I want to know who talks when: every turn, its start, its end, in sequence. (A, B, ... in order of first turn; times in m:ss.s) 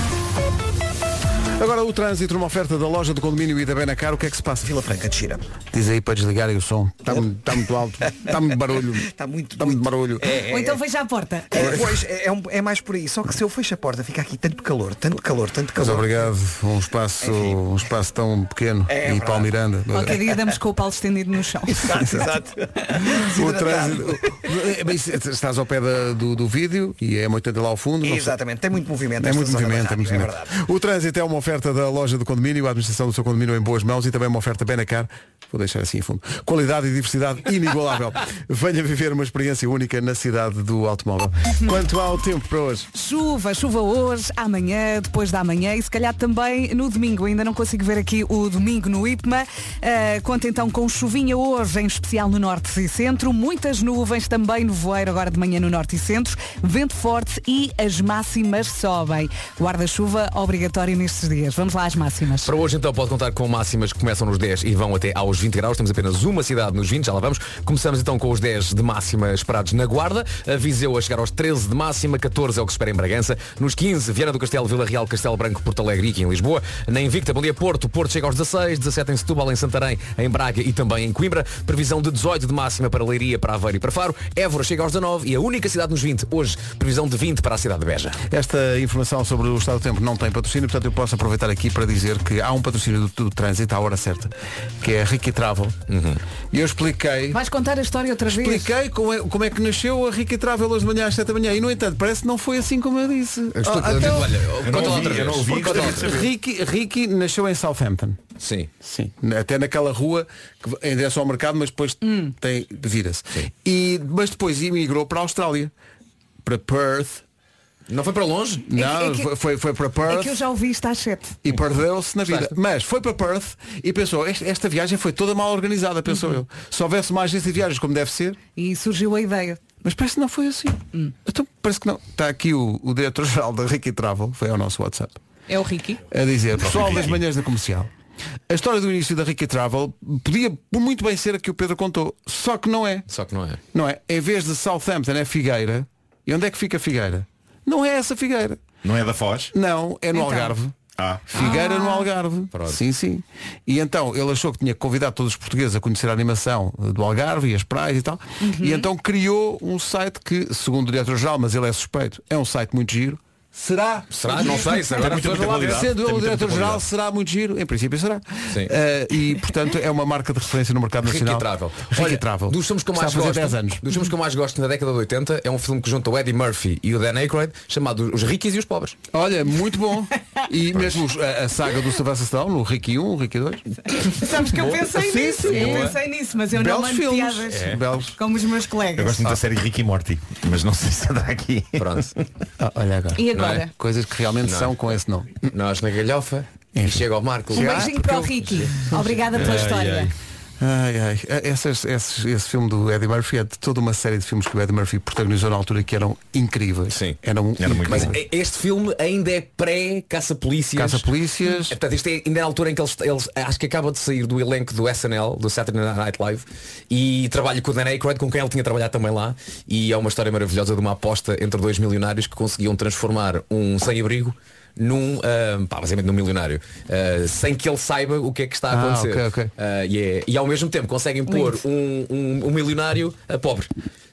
0:01.6-0:04.7 A
0:04.6-0:05.4 B
0:05.7-0:10.3 A
0:08.9-0:10.8 B
0:10.4-0:11.6 C
0:11.5-0:16.2 B
0:11.6-0:11.9 A
0:15.8-0:20.2 A
0:17.2-0:17.6 B
0:18.9-0:19.5 B
0:19.9-0:22.0 C
0:21.7-0:24.4 B
0:21.9-0:22.2 A
0:23.0-0:28.4 A
0:28.0-0:30.5 B
0:29.2-0:42.9 A
0:42.9-1:02.5 C
1:02.4-1:28.2 D
1:28.3-1:35.8 A
1:35.9-1:36.2 D
1:36.5-1:37.4 A
1:37.3-1:38.7 C
1:38.3-1:44.3 A
1:43.6-1:46.3 D
1:44.6-1:46.3 E
1:45.6-1:48.2 A
1:48.4-1:48.7 D
1:48.8-1:55.7 A
1:52.0-1:52.3 C
1:56.4-1:57.2 A
1:57.9-1:58.7 D
1:58.7-2:00.4 A
1:58.7-1:59.3 C
2:00.0-2:01.4 C
2:01.4-2:08.4 A
2:02.3-2:02.5 D
2:08.6-2:09.6 C
2:09.8-2:15.2 A
2:15.5-2:16.0 C
2:16.1-2:17.9 A
2:16.6-2:17.2 E
2:18.5-2:23.1 A
2:23.1-2:23.6 D
2:23.7-2:28.6 A
2:28.8-2:29.5 E
2:29.5-2:30.7 A
2:30.1-2:30.5 C
2:31.0-2:31.3 E
2:31.3-2:53.8 A
2:31.3-2:32.1 C
2:32.5-2:32.8 D
2:38.4-2:38.9 C
2:44.1-2:46.8 D
2:45.0-2:45.9 E
2:51.0-2:59.0 D
2:59.1-3:04.2 A
3:04.0-3:09.3 C
3:04.8-3:06.0 A
3:05.4-3:06.0 D
3:06.5-3:08.2 A
3:08.9-3:12.1 E
3:11.8-3:12.1 D
3:12.6-3:15.5 A
3:13.2-3:13.7 C
3:13.3-3:13.7 D
3:14.4-3:14.8 D
3:15.4-3:17.9 D
3:16.7-3:19.2 A
3:17.5-3:20.1 C
3:18.4-3:18.8 D
3:19.3-3:20.0 D
3:19.3-3:20.1 E
3:20.6-3:28.2 A
3:26.9-3:27.2 D
3:27.6-3:28.2 E
3:27.9-3:53.7 D
3:30.7-3:31.8 A
3:48.7-3:49.5 A